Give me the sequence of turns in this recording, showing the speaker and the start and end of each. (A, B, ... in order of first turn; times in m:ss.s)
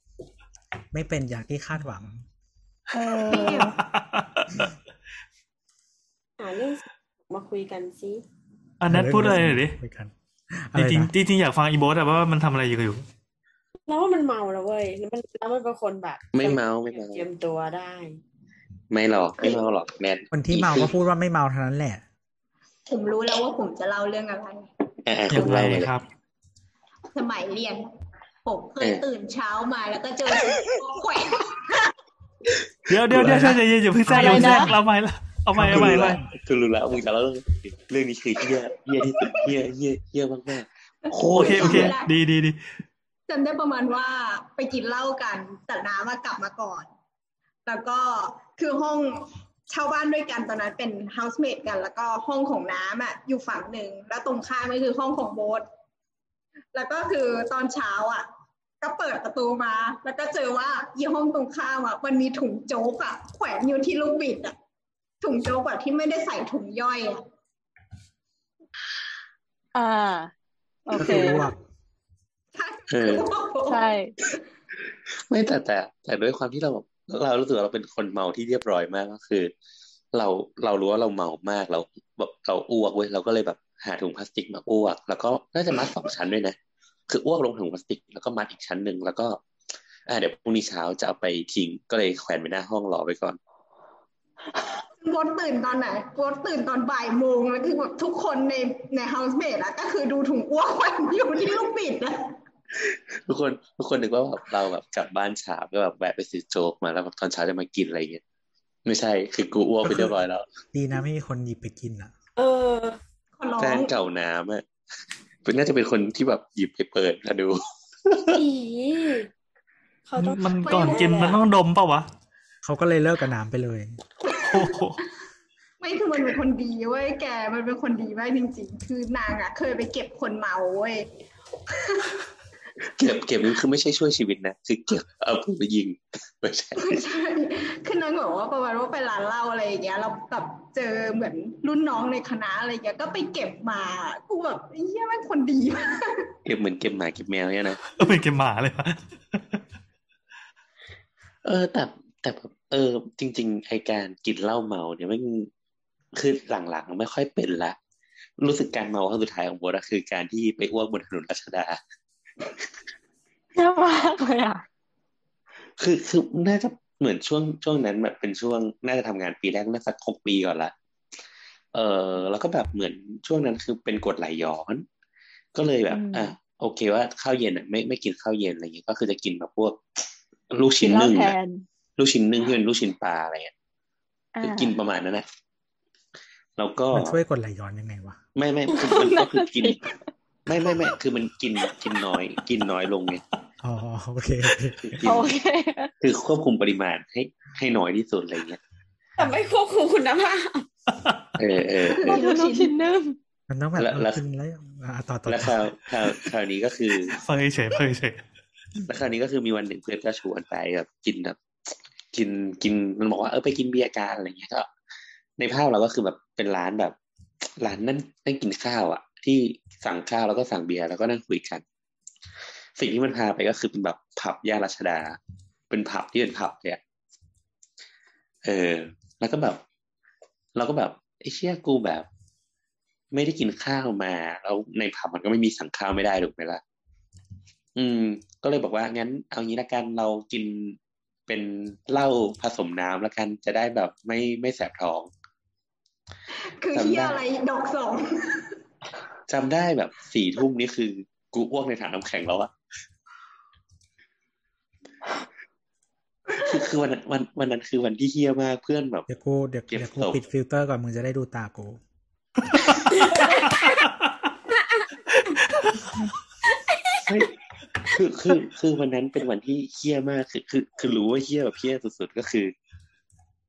0:00.9-0:02.2 A
0:02.9-0:03.8 B
0:03.0-0:04.7 C
0:03.3-0:03.7 D
0:06.4-0:08.2 E
0:08.8-0:09.8 C
0:08.9-0:11.1 A
0:10.8-0:13.1 C
0:13.9-0:18.2 E
0:16.3-0:17.3 F
0:18.9-0:20.9 F
0:20.3-0:22.0 A
0:22.9-0:24.7 D
0:25.1-0:25.9 F
0:25.3-0:26.1 C
0:27.1-0:27.9 D
0:28.4-0:31.9 D
0:32.9-0:36.2 C
0:33.1-0:33.6 F
0:34.1-0:34.7 A
0:34.1-0:34.7 B
0:35.5-0:36.3 A
0:35.6-0:41.9 F
0:41.1-0:42.1 D
0:41.3-0:42.6 C
0:43.3-0:46.9 D
0:47.7-0:55.7 D
0:56.7-0:58.3 D
0:58.8-1:04.6 D
1:05.2-1:07.2 D
1:09.8-1:10.3 B
1:10.9-1:11.5 B
1:10.9-1:11.4 D
1:11.0-1:11.6 A
1:12.6-1:13.8 D
1:12.9-1:13.3 F
1:13.7-1:14.1 B
1:15.3-1:19.5 F
1:20.1-1:26.6 F
1:27.1-1:29.4 F
1:30.1-1:33.4 F
1:35.0-1:42.3 D
1:42.7-1:48.2 F
1:48.8-1:50.5 F
1:49.8-1:50.2 A
1:50.7-1:52.1 A
1:52.4-1:53.0 E
1:53.4-1:53.9 D
1:53.6-1:54.6 F
1:55.4-1:58.4 F
1:58.3-1:59.3 E
2:00.0-2:01.4 E
2:00.2-2:02.1 C
2:00.7-2:01.3 D
2:02.6-2:04.0 A
2:04.2-2:04.8 D
2:04.4-2:05.0 C
2:05.8-2:11.1 D
2:11.7-2:12.2 D
2:12.8-2:17.0 F
2:16.8-2:26.3 D
2:26.5-2:27.8 F
2:27.9-2:29.6 C
2:31.4-2:35.5 F
2:36.2-2:37.8 F
2:38.4-2:41.8 F
2:43.6-2:44.6 B
2:45.8-2:50.7 F
2:51.7-2:54.9 F
2:55.6-2:59.8 F
2:55.9-2:56.3 B
3:00.5-3:01.4 F
3:00.8-3:01.6 B
3:02.0-3:03.5 F
3:04.4-3:04.8 B
3:04.4-3:05.3 F
3:06.6-3:07.2 F
3:06.9-3:08.2 A
3:08.4-3:09.8 F
3:08.7-3:09.8 B
3:10.5-3:13.2 F
3:13.6-3:15.0 A
3:14.8-3:15.3 F
3:15.0-3:15.9 B
3:16.0-3:18.6 F
3:19.2-3:20.7 E
3:21.4-3:22.2 F
3:22.0-3:22.7 D
3:22.0-3:23.2 B
3:23.5-3:25.6 A
3:23.8-3:24.2 F
3:25.3-3:27.2 F
3:27.2-3:28.2 C
3:28.9-3:31.4 F
3:32.1-3:34.7 F
3:35.4-3:37.0 F
3:37.6-3:41.6 F
3:42.8-3:45.2 F
3:45.7-3:46.8 F
3:48.4-3:49.6 F
3:50.6-3:52.1 F
3:53.1-3:56.6 F
3:57.8-4:05.1 F
4:06.6-4:08.5 D
4:06.7-4:07.2 F
4:09.3-4:12.5 F
4:16.4-4:19.1 F
4:19.1-4:21.8 A
4:19.7-4:20.2 F
4:22.9-4:23.9 E
4:24.5-4:25.4 E
4:26.4-4:27.2 E
4:27.1-4:27.3 F
4:27.8-4:32.5 F